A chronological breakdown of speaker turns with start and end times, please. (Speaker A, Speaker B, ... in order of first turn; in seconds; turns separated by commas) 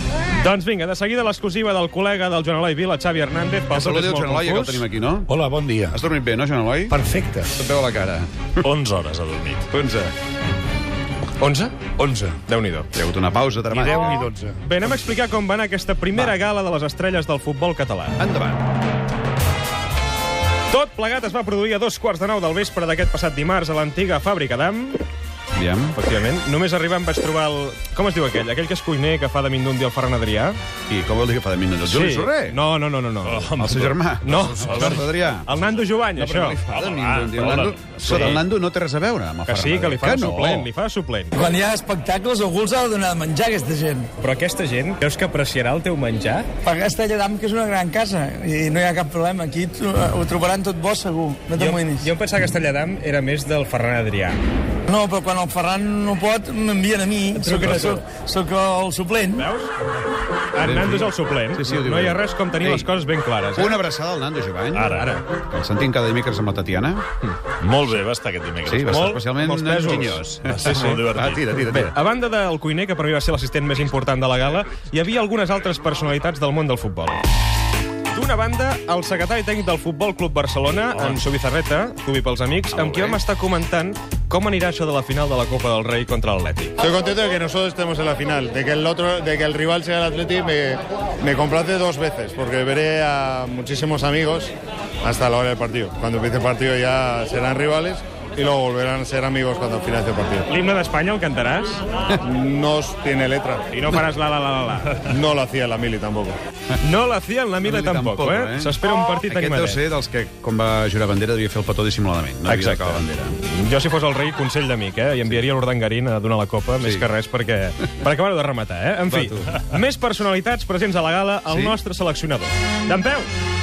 Speaker A: 0.3-4.8, Speaker B: 3.7-5.3, Speaker C: 5.3-5.9, Speaker B: 5.9-8.7, Speaker C: 6.9-7.5, Speaker D: 8.6-9.7, Speaker B: 9.7-10.1, Speaker A: 11.4-11.8, Speaker C: 12.0-12.3, Speaker A: 12.5-12.9, Speaker B: 12.9-14.2, Speaker C: 13.8-14.5, Speaker A: 13.9-18.2, Speaker B: 18.2-18.6, Speaker A: 20.7-25.0, Speaker B: 25.5-26.0, Speaker A: 25.9-30.6, Speaker B: 30.9-32.6, Speaker A: 31.8-33.6, Speaker D: 33.2-34.0, Speaker B: 33.6-35.5, Speaker A: 34.2-36.6, Speaker D: 34.7-35.0, Speaker B: 36.1-40.7, Speaker D: 36.7-38.3, Speaker A: 38.0-38.4, Speaker A: 39.5-41.3, Speaker C: 41.3-44.1, Speaker A: 44.2-46.5, Speaker C: 46.6-52.1, Speaker A: 51.6-54.4, Speaker C: 54.9-59.4, Speaker A: 57.3-58.0, Speaker A: 59.3-59.7, Speaker A: 60.5-63.8, Speaker B: 60.6-62.9, Speaker B: 63.5-67.0, Speaker D: 64.7-65.1, Speaker A: 64.9-65.2, Speaker D: 67.6-69.2, Speaker B: 68.6-71.9, Speaker A: 68.9-71.0, Speaker D: 70.5-71.4, Speaker A: 71.7-77.2, Speaker A: 78.1-86.7, Speaker D: 80.9-81.2, Speaker D: 82.8-83.2, Speaker E: 86.8-94.5, Speaker E: 95.0-100.5, Speaker A: 100.5-101.8, Speaker E: 102.2-103.7, Speaker A: 103.7-105.0, Speaker E: 105.0-106.4, Speaker A: 106.8-109.8, Speaker B: 107.6-113.3, Speaker A: 112.5-123.3, Speaker B: 116.8-117.1, Speaker B: 119.1-119.6, Speaker B: 121.5-121.8